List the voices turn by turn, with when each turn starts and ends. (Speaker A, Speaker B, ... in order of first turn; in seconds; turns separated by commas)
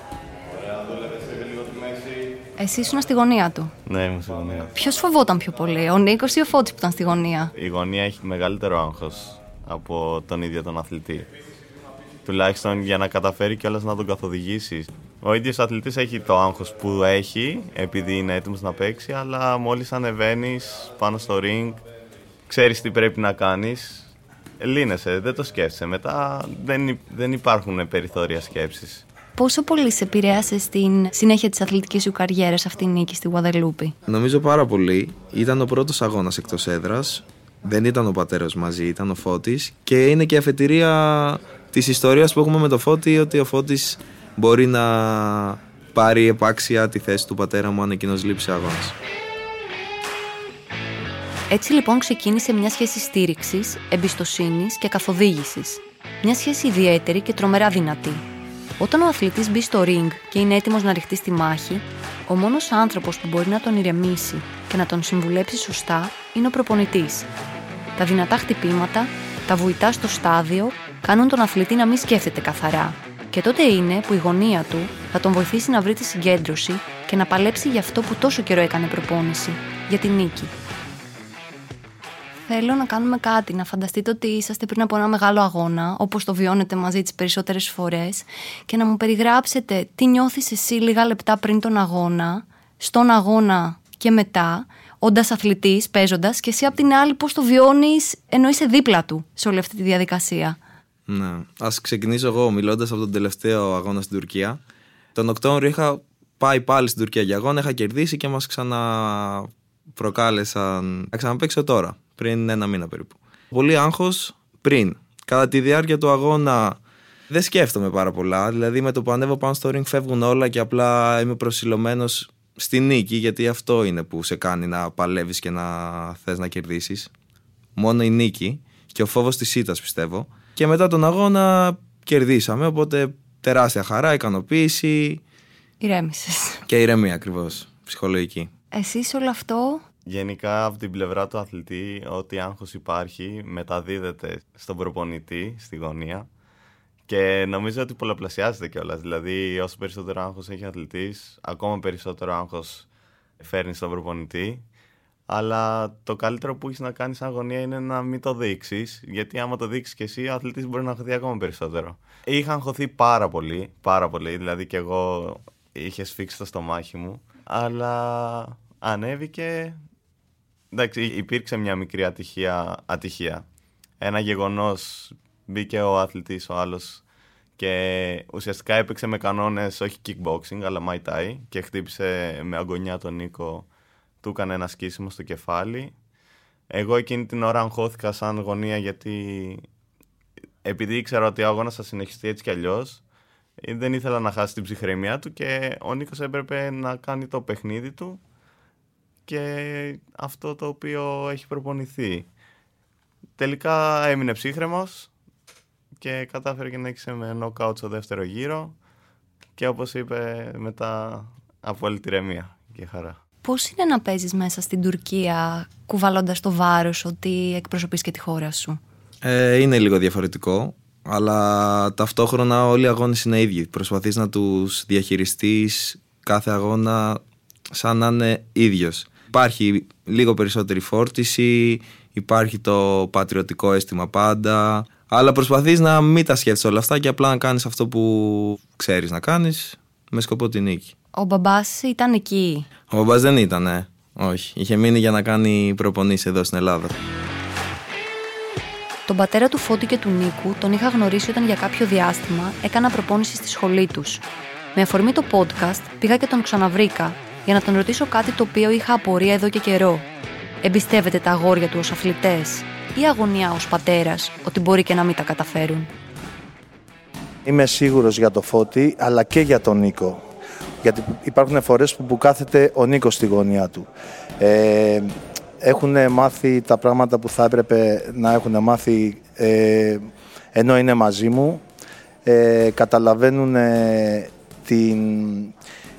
Speaker A: 0.5-2.3, Speaker B: 2.6-3.7, Speaker A: 3.9-4.7, Speaker B: 4.7-7.5, Speaker A: 7.6-11.3, Speaker A: 12.2-21.8, Speaker A: 22.5-29.1, Speaker B: 29.4-33.9, Speaker C: 34.1-49.0, Speaker B: 51.5-58.2, Speaker B: 58.8-67.3, Speaker B: 68.0-80.5, Speaker B: 82.5-100.6, Speaker C: 101.1-104.6, Speaker C: 105.1-127.1, Speaker C: 127.8-135.2, Speaker B: 135.8-136.6, Speaker C: 136.7-138.5, Speaker B: 138.7-139.8, Speaker A: 140.1-146.3, Speaker A: 147.1-152.9, Speaker A: 153.4-154.6, Speaker A: 155.3-169.8, Speaker A: 170.7-173.4, Speaker A: 174.0-177.0, Speaker A: 177.6-183.7, Speaker A: 184.2-185.9, Speaker A: 186.7-189.7, Speaker A: 190.6-193.0, Speaker A: 193.6-198.2, Speaker A: 199.3-202.3, Speaker A: 203.4-205.1, Speaker A: 206.0-208.8, Speaker A: 209.6-213.2, Speaker B: 213.4-218.8, Speaker C: 219.2-240.9, Speaker B: 241.1-242.7, Speaker C: 242.9-246.9, Speaker B: 249.1-254.2, Speaker B: 254.8-260.1, Speaker B: 260.6-265.9, Speaker D: 267.4-270.2, Speaker D: 270.8-273.9, Speaker D: 274.4-281.6, Speaker D: 282.2-285.5